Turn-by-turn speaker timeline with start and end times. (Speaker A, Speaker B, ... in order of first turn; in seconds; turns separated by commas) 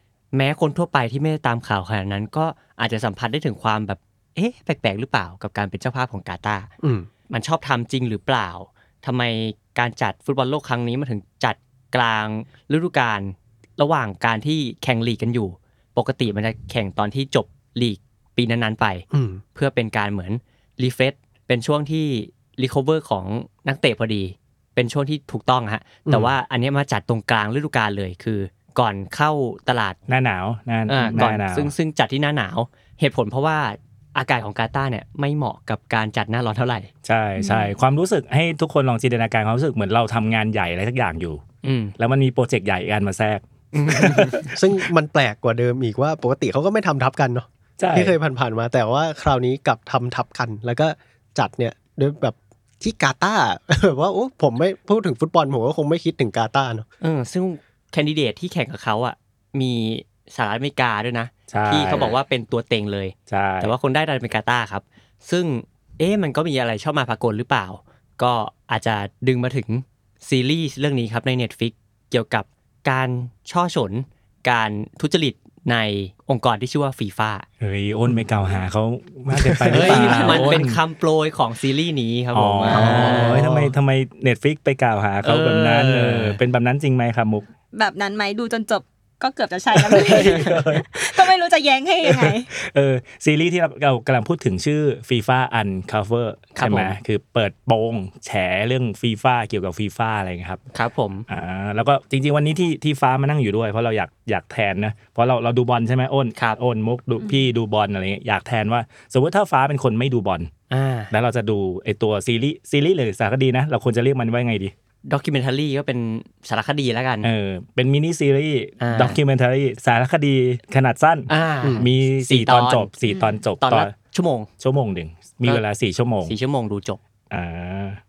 Speaker A: 0.3-6.7, Speaker B: 6.8-7.1, Speaker A: 7.3-30.0, Speaker B: 19.1-19.4, Speaker B: 26.1-26.3, Speaker C: 30.1-31.7, Speaker A: 30.9-36.9, Speaker C: 37.0-41.4, Speaker D: 37.4-37.8, Speaker A: 41.6-41.9, Speaker C: 42.0-44.5, Speaker A: 43.7-44.5, Speaker B: 44.4-56.9, Speaker C: 47.8-48.1, Speaker A: 57.0-77.4, Speaker C: 61.5-62.1, Speaker C: 63.3-63.7, Speaker C: 77.6-80.8, Speaker B: 79.3-80.0, Speaker A: 79.7-83.5, Speaker D: 79.8-80.5, Speaker C: 82.3-87.5, Speaker B: 82.7-83.7, Speaker A: 85.2-86.4, Speaker D: 87.7-92.5, Speaker C: 89.7-91.3, Speaker C: 92.0-100.6, Speaker A: 96.6-96.9, Speaker A: 100.7-101.2, Speaker C: 101.3-110.5, Speaker D: 107.2-107.5, Speaker A: 110.7-111.1, Speaker C: 111.1-114.7, Speaker A: 115.0-117.3, Speaker C: 117.2-123.9, Speaker A: 118.8-119.2, Speaker A: 121.3-122.9, Speaker B: 121.6-121.9, Speaker D: 123.0-123.4, Speaker A: 123.6-124.5, Speaker C: 124.6-126.3, Speaker A: 126.2-127.0, Speaker C: 127.3-128.0